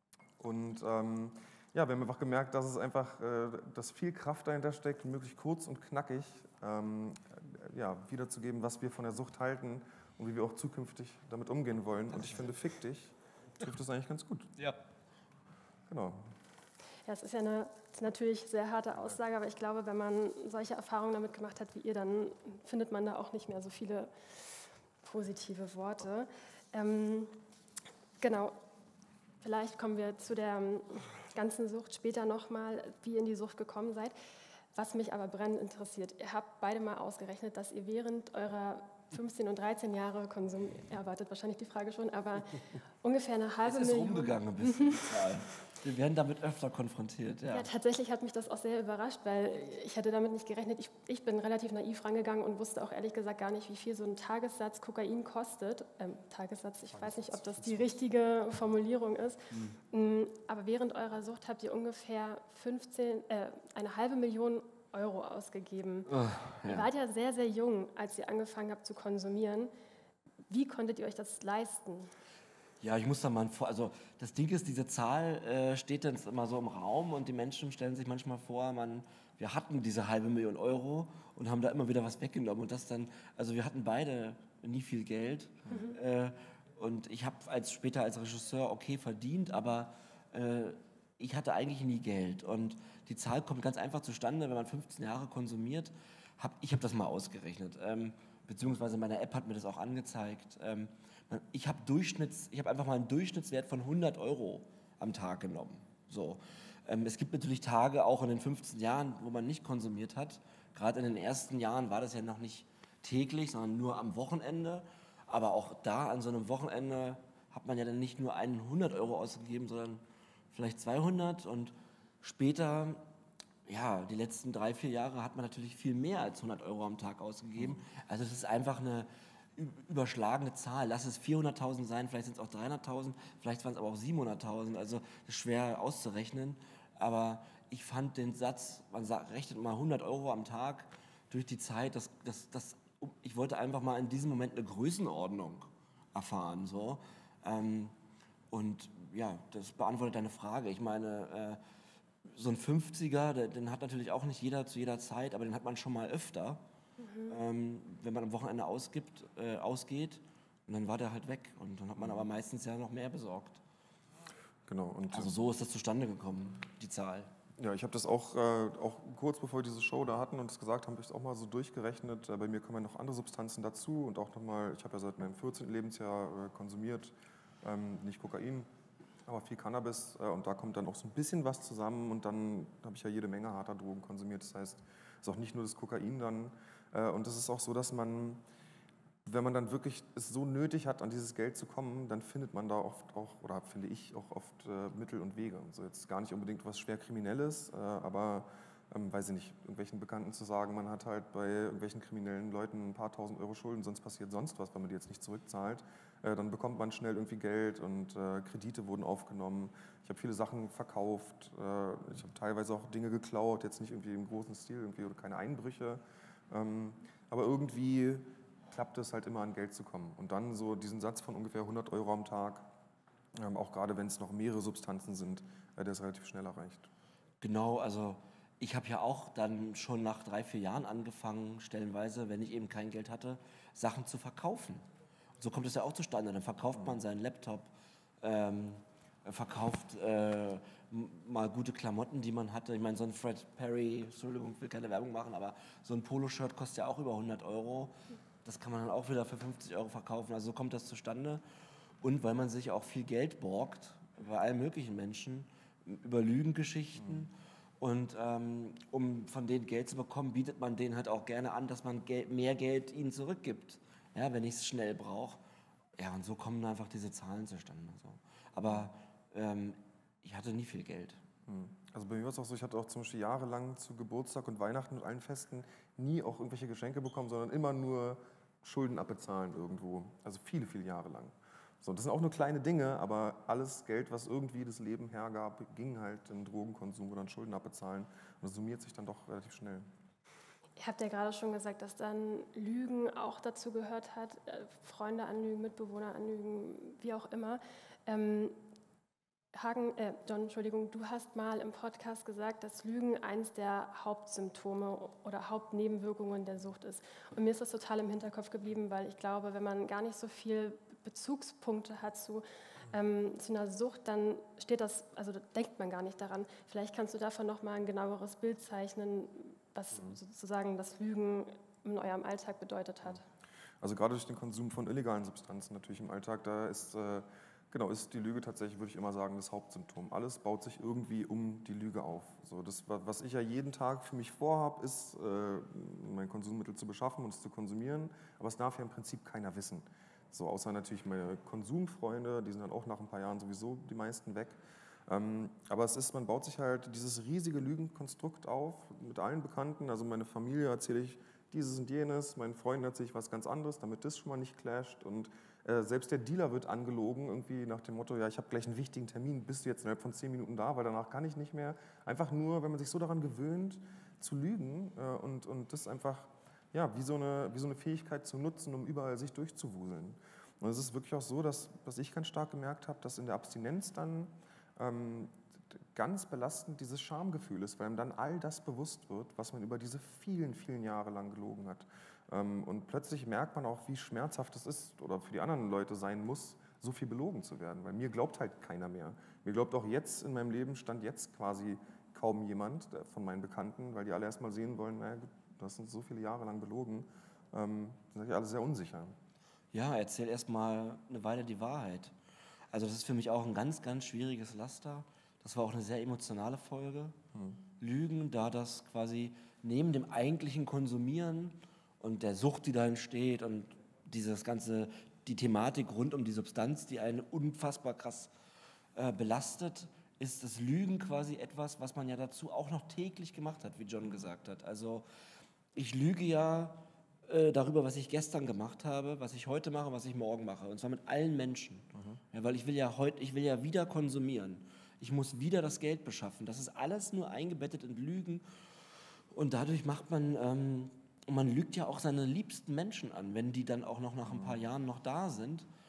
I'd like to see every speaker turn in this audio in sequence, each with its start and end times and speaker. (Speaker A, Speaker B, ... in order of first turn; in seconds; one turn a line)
Speaker A: 0.4-14.6
Speaker A: 15.9-16.3
Speaker B: 17.1-24.1
Speaker B: 25.0-27.3
Speaker B: 28.2-28.6
Speaker B: 29.4-34.1
Speaker B: 34.7-45.4
Speaker C: 43.6-47.7
Speaker B: 47.5-66.1
Speaker A: 56.9-57.9
Speaker C: 66.1-66.9
Speaker B: 66.7-69.7
Speaker B: 70.5-72.1
Speaker C: 72.8-123.0
Speaker B: 85.7-86.0
Speaker C: 123.7-147.9
Speaker C: 148.5-151.6
Speaker C: 152.3-156.6
Speaker B: 157.0-157.4
Speaker C: 157.3-163.6
Speaker A: 162.0-162.2
Speaker A: 164.7-165.4
Speaker C: 165.1-167.3
Speaker A: 167.6-178.7
Speaker A: 179.2-188.4
Speaker A: 189.2-222.7
Speaker A: 223.3-226.9
Speaker C: 227.4-234.8
Speaker C: 235.4-237.7
Speaker A: 236.7-237.0
Speaker C: 238.2-251.4
Speaker C: 252.0-265.4
Speaker C: 266.0-271.2
Speaker A: 271.5-289.9
Speaker B: 290.8-298.6
Speaker B: 299.5-323.2
Speaker A: 323.8-399.2
Speaker C: 399.7-402.1
Speaker C: 402.7-407.1
Speaker A: 407.3-407.6
Speaker C: 407.8-418.3
Speaker C: 418.9-425.0
Speaker C: 425.7-438.4
Speaker C: 439.3-445.7
Speaker A: 444.2-444.6